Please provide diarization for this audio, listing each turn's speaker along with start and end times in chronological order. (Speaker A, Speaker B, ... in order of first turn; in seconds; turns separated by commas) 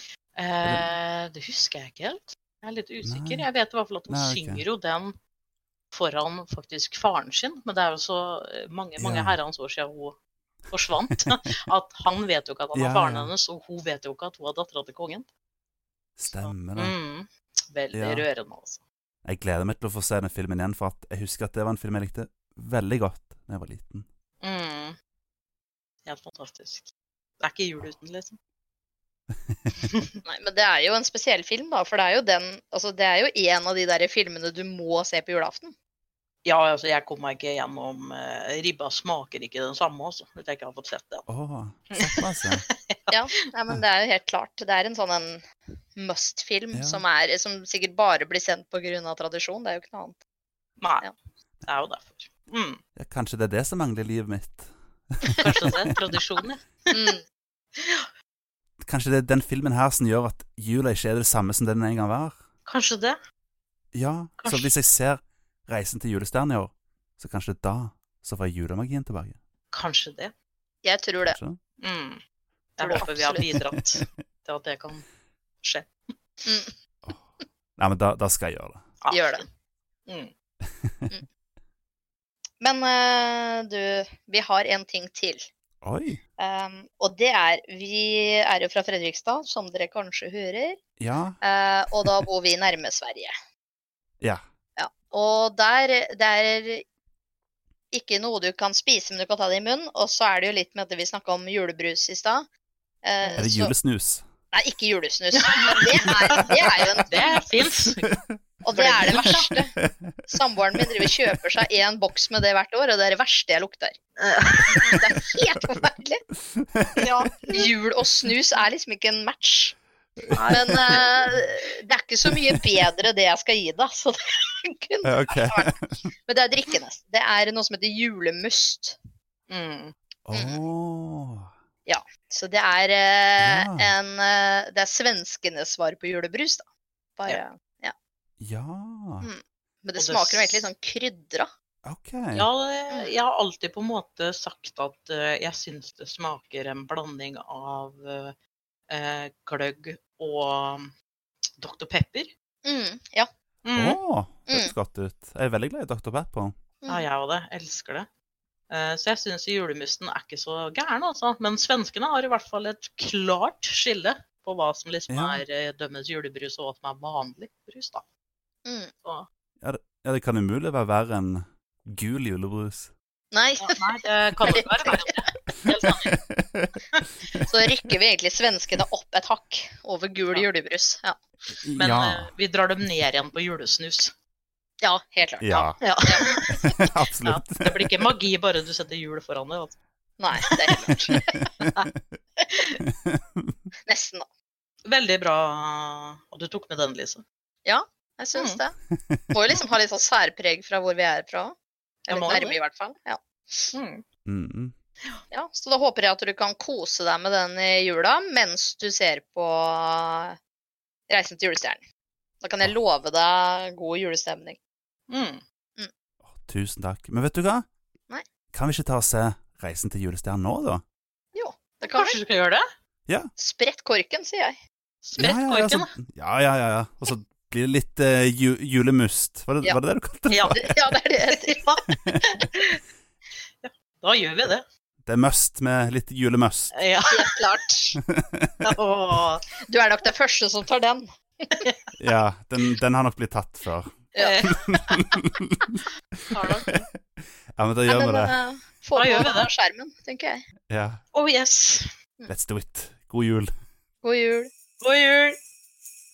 Speaker A: 0.4-5.1, Speaker B: 3.0-3.5, Speaker B: 4.1-4.6, Speaker A: 5.9-10.2, Speaker B: 9.0-9.4, Speaker A: 10.7-15.3, Speaker B: 12.8-13.3, Speaker B: 16.2-16.9, Speaker A: 16.3-18.8, Speaker B: 17.9-18.2, Speaker B: 19.2-24.1, Speaker A: 24.4-25.0, Speaker A: 26.1-26.9, Speaker A: 27.4-28.4, Speaker C: 30.2-35.8, Speaker A: 36.5-41.3, Speaker B: 41.3-42.6, Speaker A: 42.0-43.2, Speaker C: 43.1-45.4, Speaker C: 46.0-50.2, Speaker B: 46.7-47.0, Speaker A: 50.8-51.1, Speaker A: 51.6-52.8, Speaker B: 53.0-55.7, Speaker A: 55.4-57.1, Speaker C: 56.9-57.2, Speaker A: 57.8-58.1, Speaker B: 58.8-62.4, Speaker A: 62.7-63.2, Speaker B: 63.9-69.4, Speaker A: 64.4-64.7, Speaker A: 69.7-70.3, Speaker C: 70.8-71.4, Speaker B: 71.2-71.6, Speaker A: 71.8-72.2, Speaker A: 72.8-75.1, Speaker C: 72.8-73.5, Speaker B: 72.9-73.6, Speaker A: 75.6-75.9, Speaker C: 76.5-76.7, Speaker B: 77.8-78.8, Speaker A: 79.0-79.5, Speaker C: 79.1-79.4, Speaker A: 80.1-80.3, Speaker C: 82.6-85.5, Speaker B: 85.8-86.2, Speaker C: 86.4-90.8, Speaker B: 91.0-91.4, Speaker C: 91.4-93.3, Speaker C: 94.8-96.8, Speaker C: 97.9-102.5, Speaker C: 103.0-103.7, Speaker B: 103.4-104.2, Speaker C: 104.5-107.5, Speaker A: 105.4-108.1, Speaker B: 108.0-108.4, Speaker C: 108.6-109.7, Speaker A: 108.7-109.5, Speaker B: 109.1-110.4, Speaker C: 110.3-114.0, Speaker A: 114.2-115.0, Speaker C: 114.7-116.2, Speaker B: 116.5-117.0, Speaker A: 117.0-117.7, Speaker C: 117.5-119.8, Speaker B: 120.2-121.4, Speaker C: 120.4-125.7, Speaker B: 122.3-122.6, Speaker B: 125.0-126.0, Speaker C: 126.2-129.0, Speaker A: 129.5-129.9, Speaker B: 130.3-131.5, Speaker C: 130.3-130.6, Speaker C: 131.9-137.9, Speaker B: 133.4-133.9, Speaker B: 138.4-139.3, Speaker C: 139.2-141.5, Speaker A: 140.0-140.7, Speaker B: 141.8-142.5, Speaker A: 142.3-148.3, Speaker A: 148.9-150.9, Speaker A: 151.6-152.3, Speaker C: 152.6-153.3, Speaker A: 153.6-154.0, Speaker B: 153.8-156.5, Speaker C: 154.5-154.7, Speaker A: 156.9-158.1, Speaker A: 158.7-168.0, Speaker B: 165.1-165.4, Speaker C: 168.6-168.9, Speaker B: 169.6-172.9, Speaker C: 173.3-173.8, Speaker A: 173.6-176.1, Speaker C: 174.4-175.3, Speaker B: 176.1-176.7, Speaker C: 177.4-181.2, Speaker B: 181.6-182.3, Speaker A: 181.8-184.1, Speaker C: 184.8-186.9, Speaker B: 185.4-187.7, Speaker A: 185.8-189.8, Speaker C: 190.2-191.2, Speaker A: 190.4-190.8, Speaker C: 193.9-194.2, Speaker A: 194.8-197.2, Speaker C: 197.6-198.8, Speaker A: 198.3-198.6, Speaker C: 199.3-201.6, Speaker C: 202.1-203.7, Speaker A: 202.1-202.6, Speaker A: 203.7-204.0, Speaker B: 204.2-204.7, Speaker C: 205.3-210.4, Speaker C: 211.1-211.8, Speaker C: 212.4-214.6, Speaker A: 215.1-215.4, Speaker B: 216.3-217.6, Speaker B: 218.5-220.8, Speaker C: 221.3-222.2, Speaker A: 221.8-222.6, Speaker C: 223.4-224.6, Speaker A: 225.1-225.9, Speaker B: 225.2-230.7, Speaker A: 230.3-230.7, Speaker C: 230.5-231.7, Speaker A: 231.3-232.8, Speaker A: 233.6-234.6, Speaker B: 235.1-236.7, Speaker A: 236.7-237.4, Speaker C: 237.1-238.0, Speaker B: 238.1-238.6, Speaker A: 238.6-239.4, Speaker C: 239.7-241.1, Speaker B: 242.0-244.1, Speaker A: 244.2-245.1, Speaker B: 244.7-245.8, Speaker A: 246.3-246.9, Speaker B: 247.6-248.4, Speaker C: 247.9-250.4, Speaker A: 248.9-249.5, Speaker B: 250.7-251.0, Speaker A: 251.1-251.9, Speaker B: 252.3-253.5, Speaker C: 254.0-254.5, Speaker A: 254.8-255.4